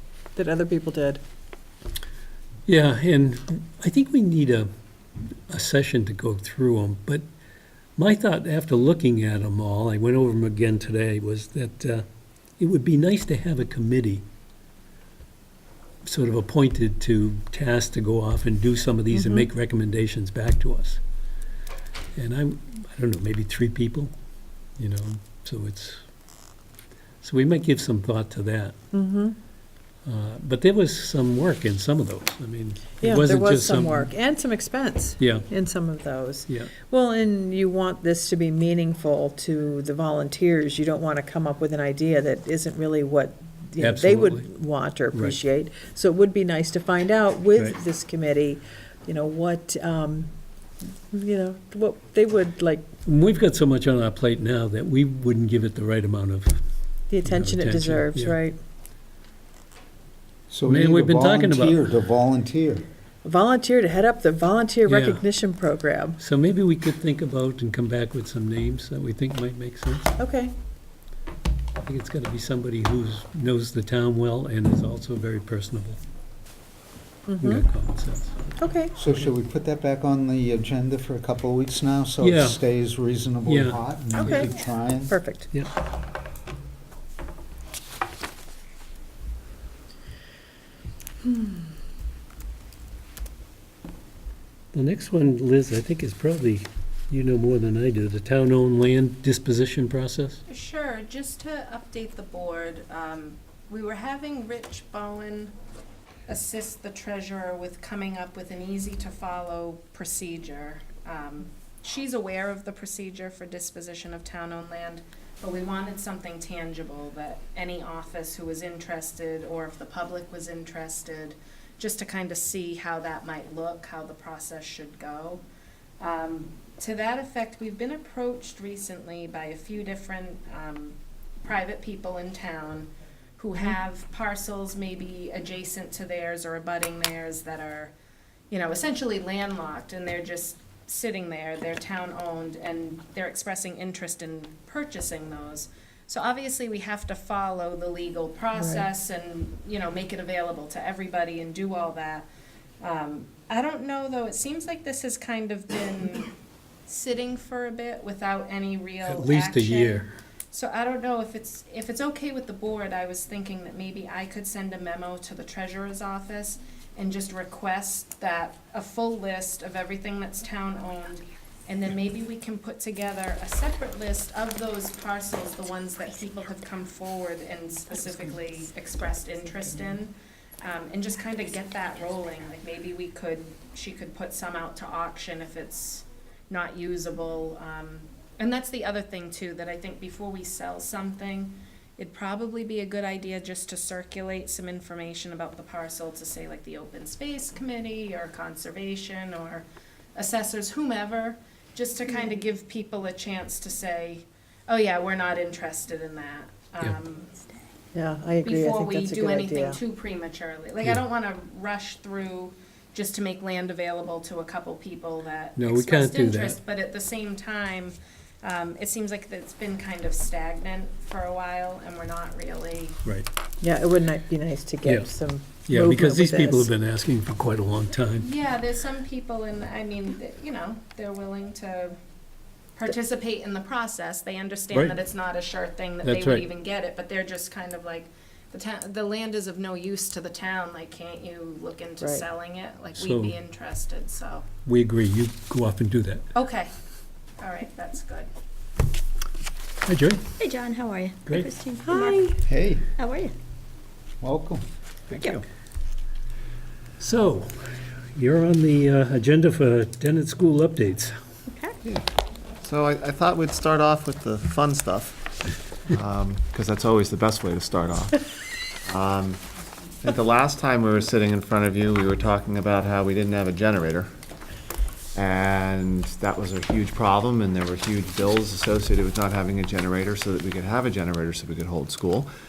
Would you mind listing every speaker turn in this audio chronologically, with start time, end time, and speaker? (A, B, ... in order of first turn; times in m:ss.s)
0:00.3-0:01.2 A
0:02.6-0:04.7 B
0:05.5-0:07.2 B
0:08.0-0:12.0 B
0:12.6-0:14.2 B
0:16.0-0:21.0 B
0:19.1-0:19.5 A
0:22.2-0:24.1 B
0:24.8-0:26.0 B
0:27.2-0:28.7 B
0:28.9-0:29.4 A
0:30.0-0:34.1 B
0:33.0-0:50.3 A
0:35.2-0:35.4 B
0:43.8-0:44.5 B
0:45.1-0:45.4 B
0:51.1-0:52.8 A
0:53.0-0:56.6 B
0:57.1-0:58.6 A
0:57.2-0:58.4 B
1:00.5-1:02.8 C
1:00.6-1:01.8 B
1:03.2-1:06.2 A
1:04.9-1:05.2 B
1:06.2-1:10.1 B
1:10.2-1:10.5 A
1:11.8-1:16.0 B
1:17.3-1:17.6 A
1:17.4-1:18.4 B
1:18.6-1:18.9 A
1:18.9-1:25.1 C
1:22.2-1:22.6 B
1:23.4-1:24.3 B
1:24.1-1:24.5 A
1:25.0-1:25.5 A
1:34.7-1:40.4 B
1:40.5-1:45.5 D
1:46.3-2:05.4 D
2:06.0-2:17.9 D
2:18.5-2:32.2 D
2:32.8-2:36.3 D
2:36.9-3:27.3 D
2:39.0-2:40.1 B
3:27.9-3:29.8 A
3:28.4-3:43.0 D
3:35.6-3:36.6 B
3:43.6-3:46.7 A
3:44.8-3:45.1 B
3:45.6-3:48.3 B
3:48.2-3:52.0 D
3:52.8-4:04.4 D
3:56.0-3:56.4 B
4:02.0-4:02.2 A
4:02.9-4:03.4 B
4:04.6-4:06.2 B
4:06.3-4:06.7 D
4:07.4-4:08.3 D
4:09.8-4:10.3 B
4:10.4-4:12.3 E
4:11.2-4:11.5 B
4:11.8-4:12.4 A
4:12.4-4:12.8 C
4:13.0-4:13.3 E
4:14.2-4:14.6 C
4:15.1-4:15.4 E
4:17.0-4:21.1 B
4:21.5-4:21.8 E
4:22.6-4:28.3 F
4:28.8-4:29.4 F
4:30.0-4:34.1 F
4:35.1-4:42.3 F